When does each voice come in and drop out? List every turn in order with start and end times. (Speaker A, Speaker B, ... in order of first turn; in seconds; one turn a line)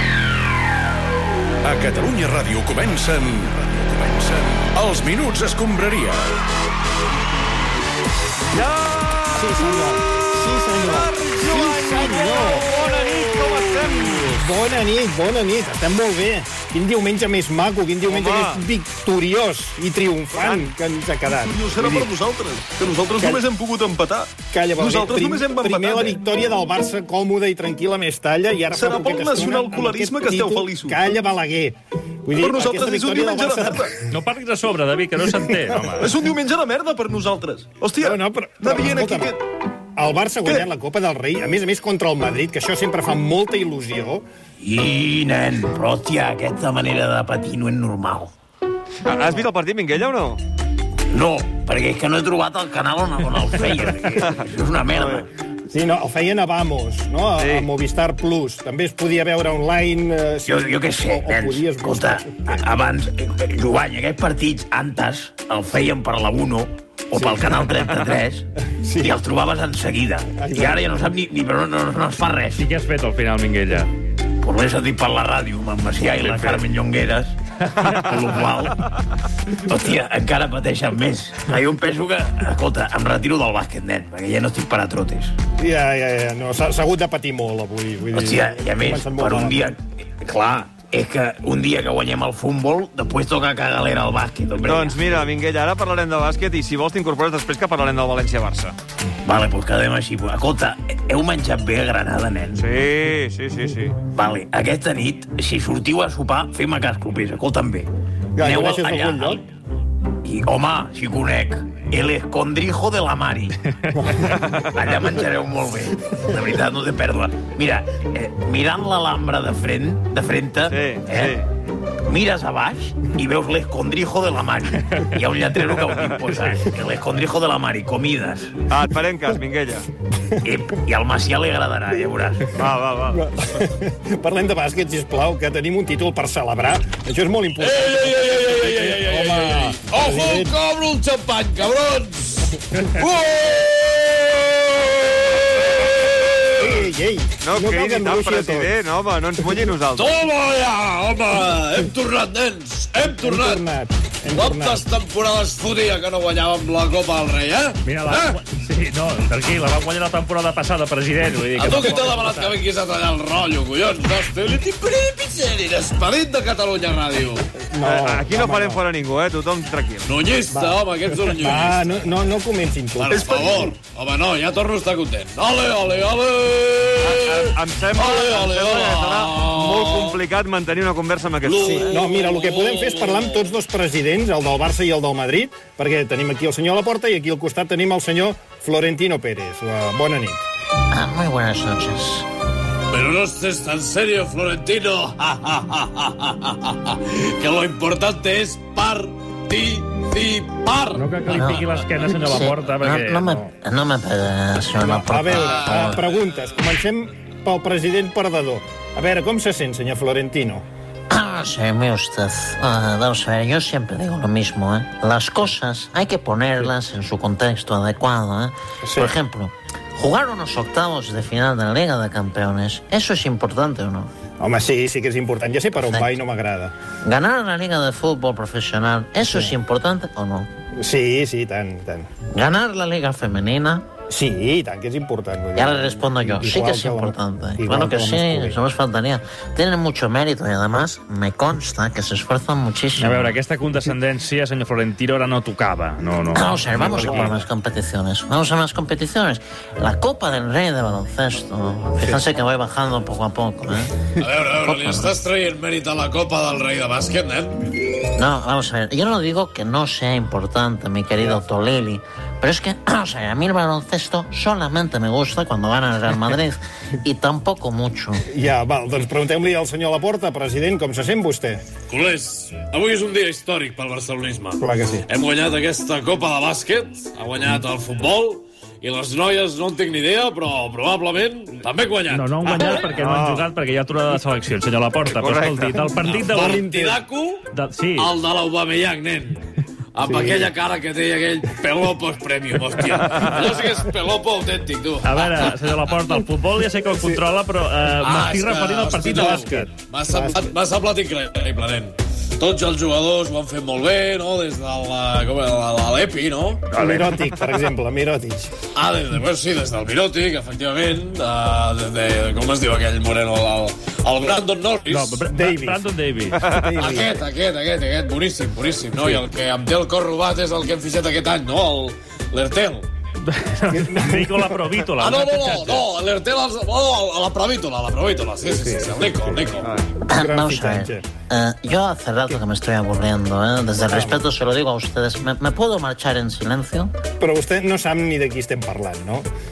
Speaker A: 1.6-6.3
Speaker B: 8.5-10.2
Speaker C: 9.3-12.7
Speaker B: 10.8-14.5
Speaker C: 14.2-22.1
Speaker B: 18.1-18.6
Speaker B: 20.4-20.6
Speaker D: 21.3-26.2
Speaker C: 23.1-23.5
Speaker C: 24.5-33.9
Speaker D: 28.7-31.0
Speaker D: 32.4-34.0
Speaker E: 34.1-36.1
Speaker C: 35.3-35.6
Speaker D: 36.0-39.4
Speaker C: 38.0-39.4
Speaker C: 40.0-44.2
Speaker F: 44.6-48.3
Speaker B: 49.0-50.4
Speaker C: 49.2-49.5
Speaker F: 51.1-55.3
Speaker B: 54.2-55.3
Speaker C: 55.7-62.7
Speaker B: 57.4-57.7
Speaker F: 60.5-68.5
Speaker C: 67.1-67.8
Speaker C: 68.7-69.2
Speaker F: 69.0-72.7
Speaker C: 70.3-71.0
Speaker E: 72.6-73.9
Speaker F: 74.4-77.3
Speaker E: 76.2-76.6
Speaker B: 77.8-78.1
Speaker F: 78.1-78.8
Speaker F: 79.6-85.3
Speaker C: 85.6-89.7
Speaker F: 88.1-95.0
Speaker B: 94.6-98.7
Speaker F: 99.2-102.7
Speaker B: 102.5-104.0
Speaker F: 104.1-107.9
Speaker C: 108.3-109.4
Speaker F: 108.4-109.4
Speaker F: 110.2-113.5
Speaker E: 113.7-114.1
Speaker C: 114.0-114.2
Speaker B: 114.4-114.7
Speaker F: 114.7-121.4
Speaker B: 120.7-121.4
Speaker F: 122.0-128.7
Speaker B: 125.7-126.2
Speaker B: 128.7-129.9
Speaker F: 130.4-132.5
Speaker B: 132.6-133.2
Speaker C: 133.1-140.6
Speaker G: 137.6-146.8
Speaker C: 146.6-148.8
Speaker B: 147.4-150.1
Speaker G: 149.9-153.6
Speaker C: 153.0-154.8
Speaker G: 154.3-158.4
Speaker E: 157.8-162.6
Speaker G: 161.5-167.5
Speaker C: 167.6-168.8
Speaker B: 167.8-170.1
Speaker G: 170.0-172.0
Speaker C: 170.5-173.7
Speaker G: 172.9-180.2
Speaker B: 177.0-182.0
Speaker G: 181.4-183.5
Speaker C: 181.6-190.4
Speaker H: 190.9-192.2
Speaker G: 192.9-201.7
Speaker E: 200.9-203.5
Speaker H: 201.3-201.6
Speaker H: 202.2-206.0
Speaker C: 204.8-210.6
Speaker G: 205.3-206.0
Speaker H: 211.1-224.1
Speaker C: 218.8-219.1
Speaker C: 224.4-226.7
Speaker H: 225.9-226.2
Speaker H: 227.0-230.5
Speaker C: 229.2-229.6
Speaker C: 230.8-232.1
Speaker H: 232.3-233.8
Speaker C: 234.1-238.6
Speaker H: 235.6-243.4
Speaker E: 243.0-247.3
Speaker H: 246.3-253.9
Speaker C: 246.8-247.4
Speaker G: 254.2-257.6
Speaker H: 254.6-255.1
Speaker H: 258.1-268.2
Speaker C: 261.2-261.4
Speaker C: 268.3-271.6
Speaker G: 271.9-282.8
Speaker C: 274.6-275.1
Speaker E: 282.1-286.6
Speaker B: 283.0-283.4
Speaker B: 285.1-285.9
Speaker G: 286.0-287.4
Speaker C: 286.3-287.0
Speaker E: 287.5-288.1
Speaker G: 288.0-295.9
Speaker C: 290.0-290.5
Speaker B: 293.1-293.5
Speaker E: 295.0-299.5
Speaker C: 296.9-297.2
Speaker G: 298.0-306.7
Speaker C: 299.0-300.5
Speaker E: 306.7-307.2
Speaker C: 306.8-308.5
Speaker G: 308.7-315.2
Speaker E: 314.9-316.4
Speaker C: 315.3-315.9
Speaker C: 316.4-317.2
Speaker G: 316.8-322.9
Speaker C: 319.0-319.2
Speaker E: 323.2-325.9
Speaker C: 323.7-324.7
Speaker G: 325.0-329.7
Speaker C: 328.5-329.5
Speaker H: 330.1-336.9
Speaker C: 330.1-331.1
Speaker C: 333.9-334.3
Speaker C: 337.2-339.3